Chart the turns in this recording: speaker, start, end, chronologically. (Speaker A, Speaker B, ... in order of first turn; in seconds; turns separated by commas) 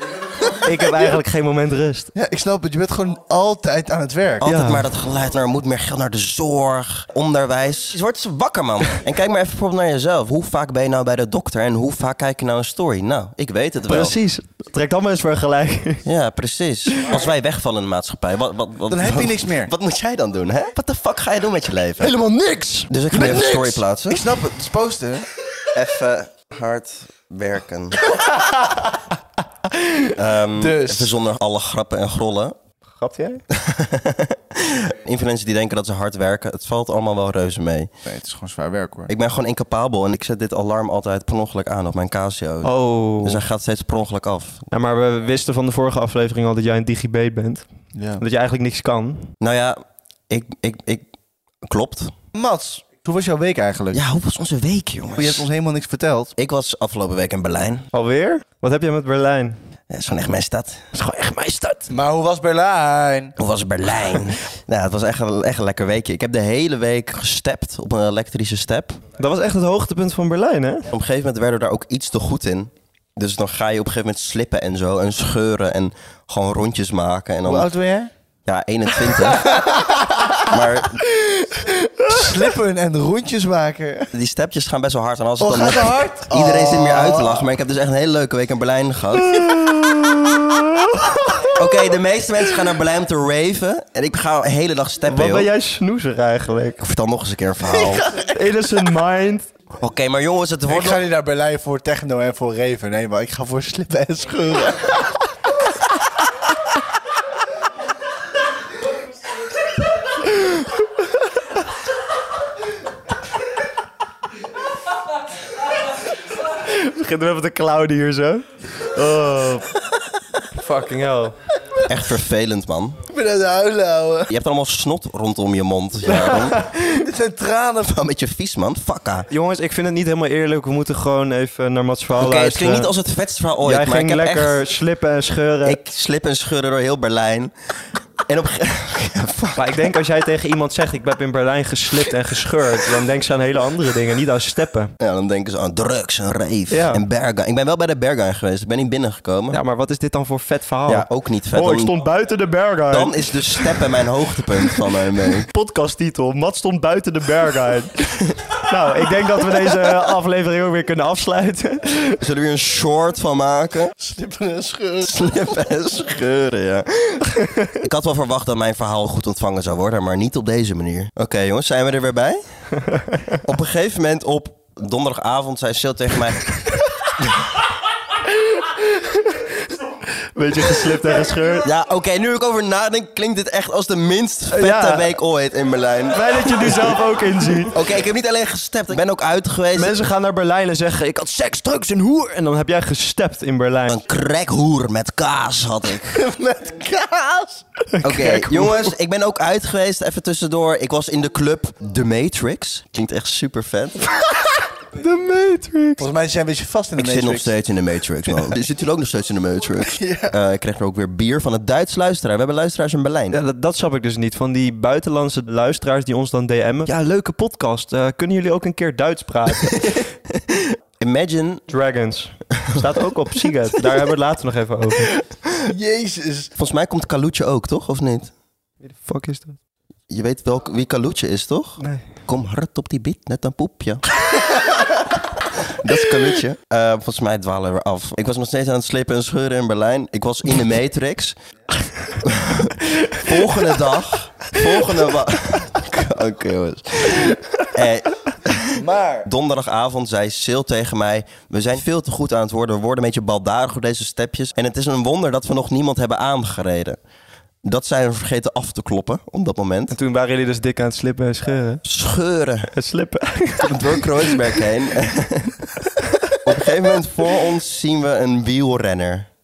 Speaker A: 0.6-2.1, Speaker B: 2.1-4.5, Speaker C: 4.4-14.2, Speaker A: 4.4-4.9, Speaker A: 13.9-16.1, Speaker C: 16.1-22.1, Speaker B: 18.9-19.7, Speaker A: 22.0-22.9, Speaker B: 22.8-25.3, Speaker C: 22.9-24.3, Speaker C: 25.7-28.0, Speaker C: 30.1-32.6, Speaker B: 30.6-31.1, Speaker A: 33.0-33.4, Speaker C: 33.5-37.9, Speaker B: 38.0-39.1, Speaker C: 39.1-44.6, Speaker A: 42.6-43.4, Speaker A: 44.7-47.7, Speaker B: 48.0-48.2, Speaker A: 48.2-49.3, Speaker C: 49.4-51.1, Speaker C: 51.7-52.1, Speaker B: 52.3-54.0, Speaker C: 53.9-55.5, Speaker B: 55.1-56.3, Speaker C: 56.4-57.9, Speaker A: 57.9-59.6, Speaker C: 59.9-60.9, Speaker A: 60.9-61.9, Speaker B: 61.9-63.3, Speaker C: 63.4-69.0, Speaker A: 69.2-70.9, Speaker C: 70.9-77.7, Speaker B: 77.4-78.1, Speaker C: 78.5-79.6, Speaker B: 79.1-84.1, Speaker C: 80.4-81.0, Speaker C: 84.1-89.5, Speaker B: 85.4-87.5, Speaker A: 89.3-91.4, Speaker C: 91.5-95.5, Speaker A: 95.1-96.8, Speaker C: 96.8-98.0, Speaker B: 97.8-98.3, Speaker A: 98.3-99.5, Speaker C: 99.8-101.0, Speaker B: 100.7-105.2, Speaker A: 116.6-119.7, Speaker A: 120.6-121.4, Speaker C: 121.9-123.0, Speaker B: 123.1-124.3, Speaker C: 124.3-126.6, Speaker B: 126.5-128.0, Speaker C: 127.8-129.3, Speaker A: 129.3-132.9, Speaker C: 132.2-134.6, Speaker A: 133.6-135.8, Speaker C: 135.6-137.5, Speaker C: 138.3-139.7, Speaker A: 139.6-144.9, Speaker C: 145.0-149.6, Speaker A: 146.7-147.0, Speaker A: 149.5-162.2, Speaker C: 150.9-151.9, Speaker C: 152.9-155.5, Speaker C: 162.2-163.9, Speaker B: 164.0-165.1, Speaker C: 165.0-167.2, Speaker A: 167.4-167.7, Speaker C: 167.8-172.4, Speaker A: 172.9-173.4, Speaker C: 173.4-176.6, Speaker A: 178.3-181.7, Speaker C: 181.6-187.0, Speaker A: 184.5-185.2, Speaker A: 186.1-187.9, Speaker C: 187.7-189.9, Speaker A: 189.8-194.0, Speaker C: 193.9-196.2, Speaker B: 196.1-197.6, Speaker A: 197.9-198.9, Speaker C: 198.0-204.0, Speaker A: 204.9-206.1, Speaker B: 206.0-207.5, Speaker C: 207.0-213.4, Speaker B: 210.0-210.3, Speaker A: 213.3-220.0, Speaker C: 219.8-221.7, Speaker A: 221.7-225.1, Speaker B: 225.7-226.5, Speaker C: 226.6-228.3, Speaker A: 228.8-229.6, Speaker C: 230.1-234.0, Speaker A: 231.8-232.1, Speaker C: 235.7-241.3, Speaker C: 242.2-257.0, Speaker B: 248.8-249.3, Speaker C: 257.6-260.0, Speaker A: 259.9-261.8, Speaker C: 261.8-262.7, Speaker A: 262.7-264.6, Speaker C: 263.6-265.7, Speaker A: 266.0-266.5, Speaker C: 266.4-269.3